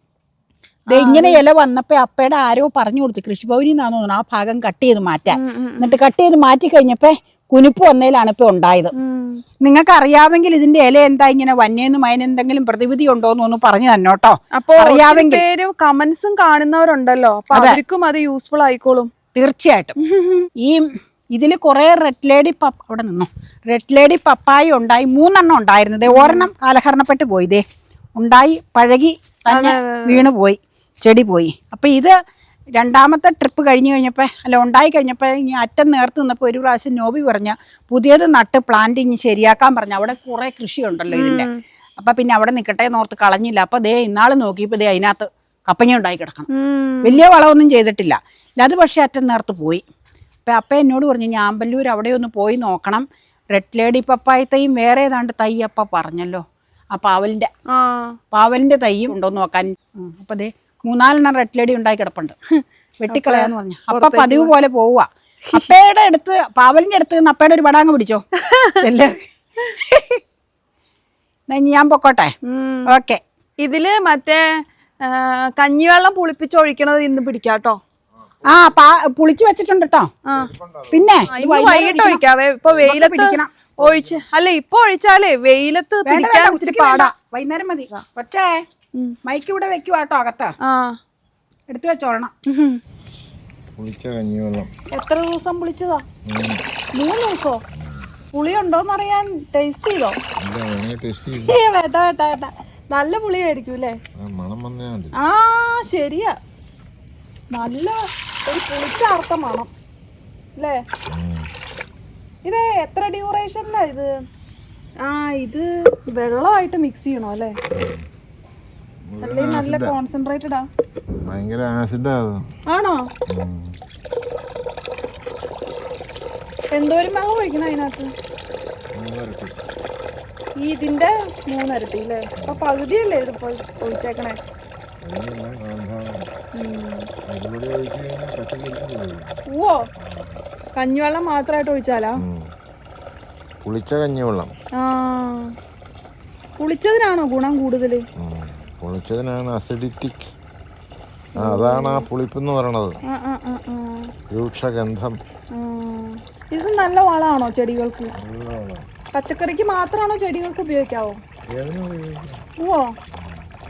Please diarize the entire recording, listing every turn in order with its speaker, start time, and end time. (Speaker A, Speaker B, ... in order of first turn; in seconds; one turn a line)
Speaker A: 0.9-1.4
Speaker B: 0.9-8.9
Speaker A: 5.3-6.0
Speaker A: 8.9-9.4
Speaker B: 9.6-15.4
Speaker A: 14.5-19.1
Speaker B: 17.5-17.8
Speaker B: 19.3-20.0
Speaker A: 20.0-20.5
Speaker B: 20.6-27.6
Speaker A: 26.1-26.5
Speaker B: 28.2-32.1
Speaker A: 29.5-30.3
Speaker B: 32.7-46.5
Speaker A: 41.1-41.6
Speaker A: 46.5-47.2
Speaker B: 47.0-49.8
Speaker B: 50.5-57.5
Speaker A: 57.7-58.2
Speaker B: 58.3-62.4
Speaker B: 63.0-68.2
Speaker A: 63.1-64.5
Speaker A: 68.4-68.8
Speaker B: 68.8-69.2
Speaker B: 69.8-70.2
Speaker B: 71.5-72.3
Speaker A: 72.5-72.9
Speaker B: 72.9-73.2
Speaker A: 73.6-74.5
Speaker A: 75.0-77.8
Speaker B: 78.5-80.1
Speaker C: 80.5-81.2
Speaker B: 80.9-82.2
Speaker A: 81.3-87.1
Speaker B: 82.8-83.5
Speaker C: 83.8-84.2
Speaker B: 86.1-88.6
Speaker B: 89.2-90.5
Speaker A: 90.6-91.0
Speaker B: 91.7-92.3
Speaker A: 92.5-92.8
Speaker C: 93.8-94.7
Speaker A: 94.9-96.0
Speaker C: 96.3-96.6
Speaker A: 97.0-97.6
Speaker C: 97.7-98.1
Speaker A: 98.3-100.2
Speaker C: 100.4-101.6
Speaker A: 101.5-104.0
Speaker C: 104.2-105.2
Speaker A: 105.2-106.3
Speaker A: 107.5-109.7
Speaker A: 110.6-110.8
Speaker C: 111.1-111.5
Speaker A: 112.5-114.2
Speaker A: 115.0-117.5
Speaker C: 117.7-118.0
Speaker C: 119.1-120.0
Speaker A: 119.2-120.7
Speaker C: 121.2-122.5
Speaker A: 122.7-123.1
Speaker C: 123.3-123.8
Speaker A: 126.7-128.1
Speaker C: 128.9-129.6
Speaker A: 130.6-134.4
Speaker C: 135.0-136.3
Speaker A: 136.6-137.1
Speaker C: 137.3-139.4
Speaker A: 139.5-139.8
Speaker C: 140.0-140.4
Speaker A: 140.8-142.2
Speaker C: 142.2-142.5
Speaker C: 143.7-144.5
Speaker A: 144.8-145.5
Speaker A: 146.6-148.1
Speaker C: 148.2-150.3
Speaker A: 151.4-152.1
Speaker C: 151.4-153.0
Speaker A: 153.1-154.1
Speaker C: 154.3-155.2
Speaker A: 155.5-158.1
Speaker C: 158.2-158.9
Speaker A: 159.1-161.2
Speaker C: 161.5-162.4
Speaker A: 162.6-162.9
Speaker C: 163.1-163.4